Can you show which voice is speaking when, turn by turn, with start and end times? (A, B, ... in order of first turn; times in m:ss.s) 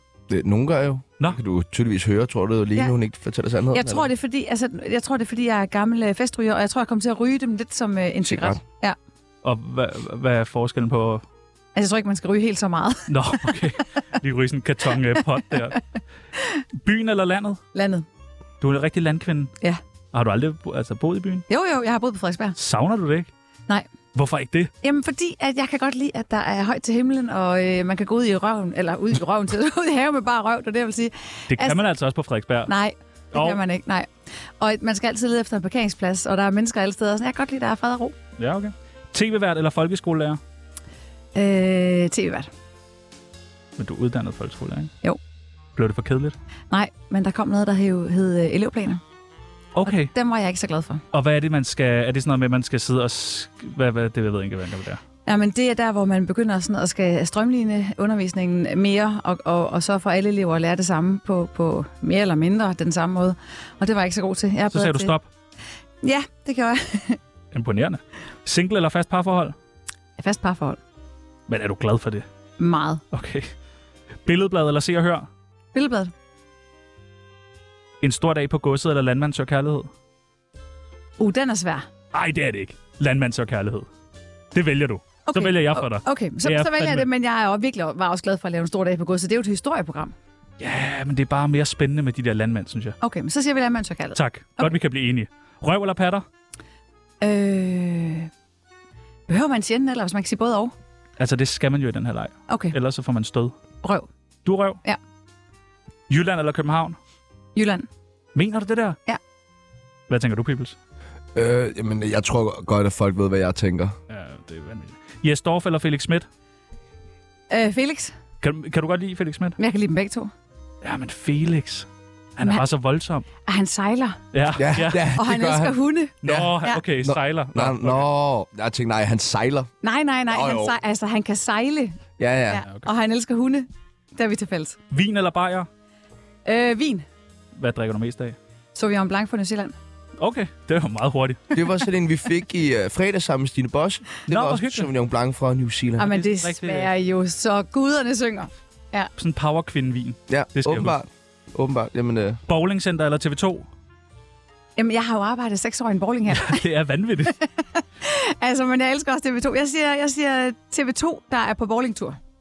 0:00.3-0:04.1 A
0:03.7-0:09.0 B
0:08.2-0:08.6 A
0:09.4-0:11.2 C
0:11.8-0:13.5 B
0:13.1-0:15.8 C
0:16.8-0:17.6 C
0:17.8-0:18.1 B
0:18.6-0:19.5 C
0:20.1-0:21.4 C
0:21.5-0:22.6 B
0:22.6-0:23.3 C
0:24.2-0:24.7 C
0:24.8-0:31.8 B
0:31.5-0:32.7 C
0:32.7-0:34.1 B
0:33.3-0:33.6 C
0:34.6-0:38.2 B
0:38.4-0:40.4 C
0:41.4-0:42.5 B
0:43.8-0:44.9 C
0:45.8-0:46.4 C
0:46.7-0:49.0 B
0:49.8-0:50.1 C
0:49.8-0:51.0 B
0:51.1-0:55.0 C
0:55.3-1:05.1 B
1:04.7-1:05.3 C
1:06.0-1:07.2 B
1:07.5-1:09.6 C
1:10.2-1:10.8 B
1:11.5-1:12.2 C
1:12.6-1:13.0 B
1:13.1-1:13.5 C
1:14.2-1:15.3 C
1:15.7-1:16.1 B
1:18.0-1:19.9 C
1:21.2-1:21.9 B
1:22.1-1:23.9 C
1:24.5-1:27.1 C
1:25.3-1:30.1 B
1:30.6-1:33.0 C
1:33.0-1:34.7 B
1:34.2-1:36.2 C
1:37.2-1:38.3 B
1:39.3-1:40.7 B
1:41.2-1:43.5 C
1:42.5-1:42.8 B
1:43.8-1:44.1 B
1:44.4-1:44.8 C
1:46.1-1:47.0 C
1:47.6-1:47.9 B
1:48.4-1:49.0 C
1:50.1-1:50.8 C
1:51.4-1:54.0 A
1:54.1-1:56.3 C
1:57.5-1:58.2 B
1:58.4-1:59.6 C
1:59.6-2:00.3 B
2:00.8-2:03.3 C
2:03.5-2:04.2 B
2:04.3-2:05.1 C
2:04.6-2:09.7 A
2:05.1-2:06.8 B
2:06.2-2:08.1 C
2:09.8-2:12.0 B
2:10.3-2:10.8 A
2:12.2-2:12.6 A
2:12.5-2:14.8 B
2:14.9-2:15.7 C
2:16.5-2:17.0 B
2:17.6-2:18.4 C
2:18.8-2:19.8 B
2:20.2-2:21.5 C
2:21.5-2:26.1 A
2:24.3-2:24.9 C
2:26.0-2:29.1 B
2:26.1-2:26.9 C
2:29.2-2:31.0 C
2:30.3-2:32.4 A
2:32.5-2:33.7 C
2:34.8-2:36.6 B
2:36.3-2:37.3 C
2:37.3-2:42.2 B